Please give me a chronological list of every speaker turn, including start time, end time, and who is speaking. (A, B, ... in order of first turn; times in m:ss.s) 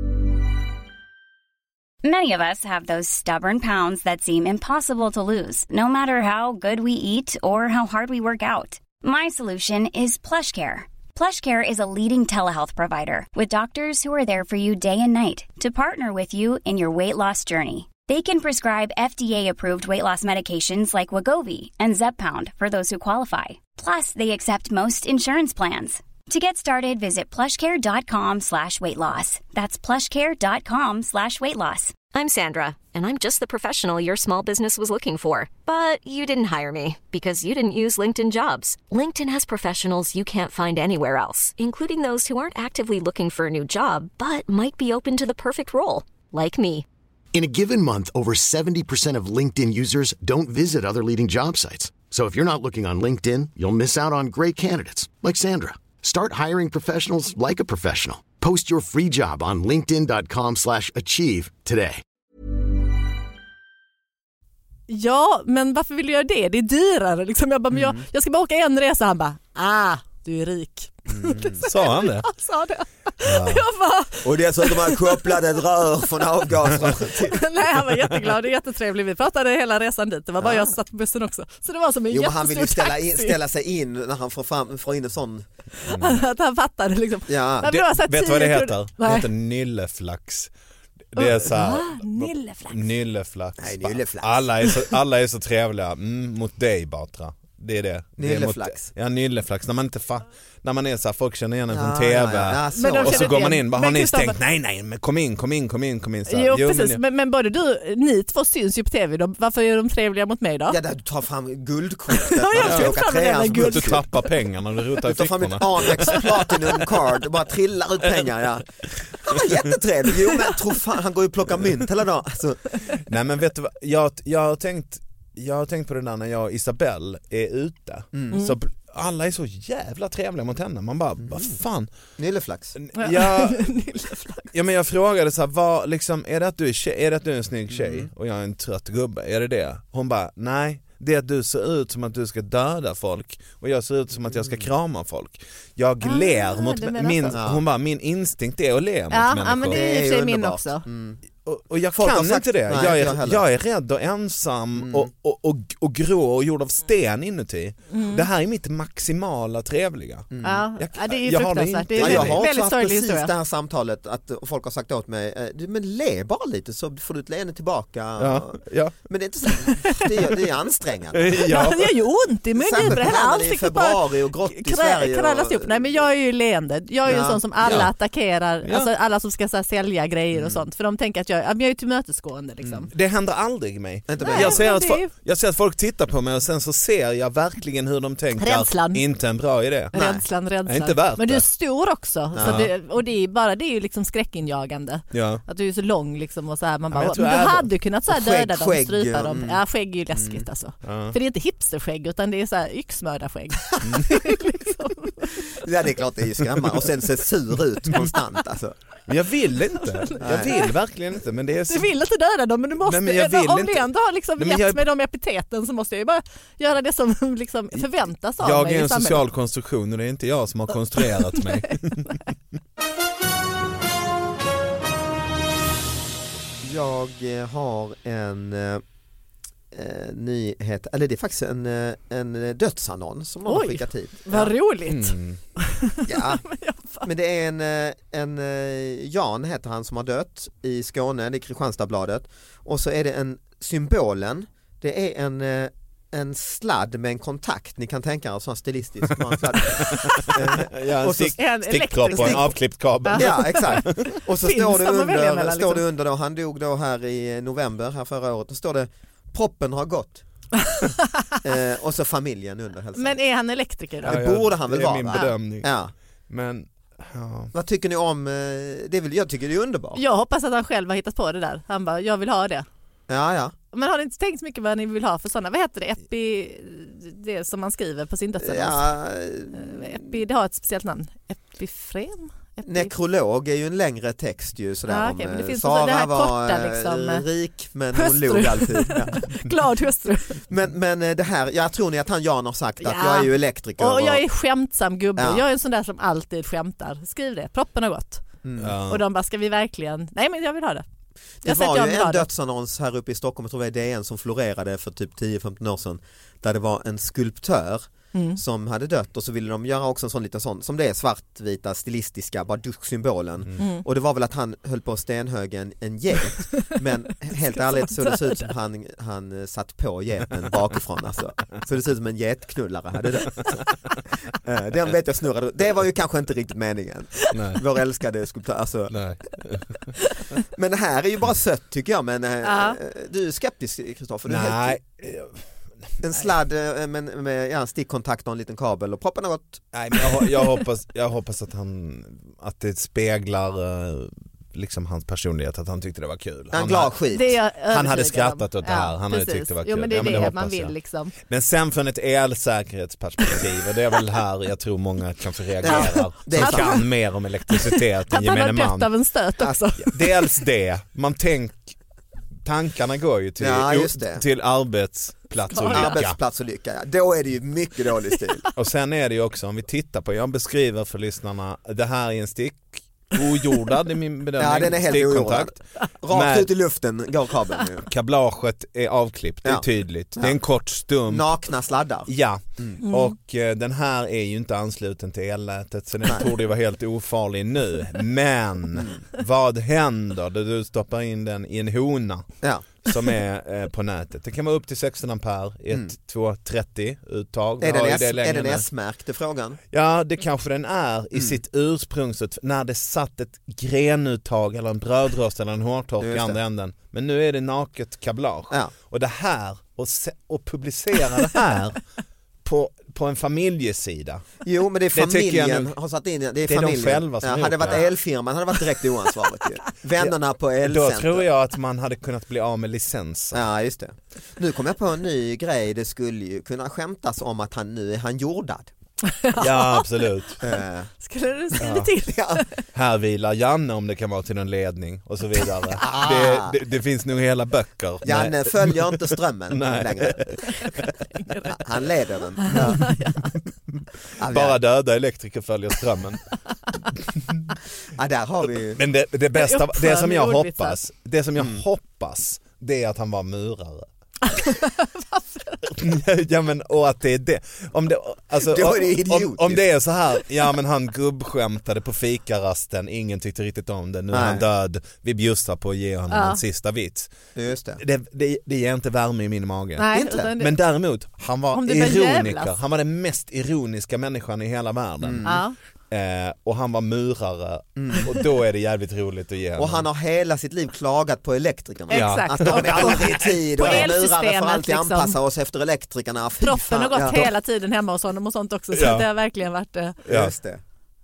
0:02.0-0:32.0 A
0:32.1-0:46.8 B
0:47.3-1:02.0 C
1:04.9-1:15.3 D
1:07.7-1:08.0 E
1:11.1-1:11.6 E
1:11.6-1:12.3 F
1:13.2-1:13.6 F
1:14.2-1:17.4 E
1:17.1-1:23.4 D
1:20.4-1:20.7 E
1:22.1-1:25.5 E
1:25.8-1:29.3 D
1:25.9-1:26.2 F
1:27.3-1:27.7 E
1:27.6-1:30.5 F
1:31.1-1:47.0 F
1:31.2-1:32.9 D
1:33.6-1:34.4 E
1:38.2-1:38.9 E
1:41.7-1:43.5 E
1:42.7-1:44.4 D
1:46.3-1:50.8 D
1:50.7-1:54.0 E
1:52.2-1:54.0 D
1:52.6-1:56.8 F
1:55.0-2:02.8 E
2:03.0-2:11.9 F
2:11.2-2:11.6 E
2:12.2-2:12.8 E
2:12.8-2:13.8 F
2:13.0-2:14.5 D
2:14.5-2:29.8 F
2:17.7-2:18.1 E
2:24.3-2:24.6 E
2:26.0-2:27.4 D
2:27.3-2:27.6 E
2:29.1-2:30.8 D
2:29.7-2:31.2 E
2:31.4-2:42.4 F
2:31.9-2:33.4 E
2:34.8-2:35.1 E
2:37.9-2:38.2 D
2:40.3-2:40.6 E
2:40.4-2:43.3 D
2:42.0-2:51.5 E
2:48.2-2:49.0 F
2:51.1-2:51.9 F
2:51.4-3:02.9 D
2:52.5-2:56.0 E
2:57.0-2:57.8 E
2:57.6-2:57.9 F
2:58.6-2:58.9 F
3:00.3-3:00.6 E
3:02.6-3:02.9 E
3:02.9-3:09.9 F
3:04.1-3:04.6 E
3:04.2-3:05.1 D
3:08.4-3:09.0 D
3:09.9-3:25.3 D
3:09.9-3:10.2 E
3:10.6-3:11.4 F
3:12.3-3:12.6 E
3:12.4-3:12.7 F
3:15.1-3:15.4 F
3:16.9-3:17.7 F
3:18.1-3:19.6 E
3:20.1-3:20.4 E
3:20.8-3:21.1 F
3:25.5-3:28.8 E
3:29.1-3:31.9 F
3:29.8-3:30.7 D
3:30.2-3:30.6 E
3:31.7-3:39.2 D
3:32.8-3:34.8 F
3:38.4-3:42.2 F
3:41.0-3:41.7 D
3:46.6-3:48.8 E
3:49.7-3:54.5 E
3:53.5-3:57.1 D
3:54.9-3:55.4 F
3:56.0-3:56.4 E
3:57.0-4:11.4 E
4:09.7-4:14.0 F
4:11.3-4:15.8 D
4:12.1-4:12.4 E
4:13.1-4:20.2 E
4:20.8-4:21.2 D
4:21.4-4:23.2 E
4:23.0-4:24.2 D
4:24.0-4:25.7 F
4:24.0-4:25.9 E
4:26.3-4:27.5 F
4:27.5-4:30.0 E
4:30.0-4:32.6 D
4:33.1-4:33.5 E
4:33.7-4:38.9 D
4:38.4-4:39.9 E
4:39.5-4:42.9 D
4:42.6-4:49.3 E
4:44.9-4:47.2 D
4:47.9-4:50.4 D
4:50.4-4:54.2 E
4:52.8-4:58.2 D
4:55.2-4:55.4 E
4:58.4-4:58.8 E
4:58.6-4:59.0 F
4:58.8-5:00.8 D
5:01.4-5:23.6 E
5:01.4-5:02.3 D
5:08.1-5:08.4 D
5:13.6-5:13.8 D
5:17.4-5:18.5 D
5:24.4-5:29.0 E
5:27.3-5:27.6 F
5:28.9-5:29.7 F
5:30.5-5:34.8 E
5:32.4-5:32.8 D
5:34.2-5:35.4 F
5:36.0-5:39.7 E
5:39.7-5:47.0 F
5:46.5-5:47.4 E
5:47.1-5:51.1 D
5:47.7-5:58.9 F
5:55.6-5:56.8 E
5:55.6-5:56.8 D
5:57.5-6:00.3 D
5:59.8-6:01.8 F
6:02.4-6:06.2 F
6:03.4-6:04.2 E
6:05.5-6:05.9 D
6:05.6-6:08.5 E
6:08.5-6:15.6 F
6:14.4-6:17.9 E
6:16.1-6:16.5 F
6:17.9-6:21.3 F
6:21.1-6:22.8 E
6:22.0-6:38.7 F
6:22.8-6:23.1 D
6:28.8-6:29.0 E
6:32.4-6:32.7 E
6:37.6-6:39.6 E
6:39.7-6:51.8 F
6:46.0-6:46.4 E
6:52.4-6:54.3 F
6:54.4-7:01.2 E
6:54.9-6:55.7 F
6:56.4-6:57.9 F
7:00.0-7:03.4 F
7:03.3-7:08.7 E
7:09.0-7:10.0 D
7:09.4-7:10.4 F
7:10.4-7:10.9 E
7:11.0-7:12.4 D
7:11.6-7:12.4 E
7:12.7-7:20.9 F
7:15.7-7:16.6 E
7:18.0-7:20.8 E
7:21.5-7:22.9 E
7:22.5-7:23.4 D
7:22.5-7:22.9 F
7:24.2-7:24.6 E
7:24.2-7:26.2 F
7:27.1-7:27.5 F
7:27.9-7:28.8 E
7:28.8-7:33.9 F
7:29.3-7:30.8 D
7:31.4-7:31.6 E
7:34.2-7:35.6 D
7:35.6-7:47.1 F
7:38.4-7:39.6 E
7:44.1-7:44.4 E
7:46.1-7:46.4 D
7:47.3-7:47.8 E
7:47.8-7:59.8 F
7:49.8-7:50.5 D
7:49.9-7:50.3 E
7:51.5-7:52.5 D
7:55.0-7:55.4 E
7:55.2-7:55.6 D
7:57.8-7:58.1 E
7:59.6-8:07.3 E
8:01.9-8:05.2 D
8:01.9-8:03.9 F
8:06.4-8:10.0 D
8:07.0-8:07.3 F
8:08.7-8:09.1 F
8:10.0-8:10.6 E
8:10.1-8:10.3 F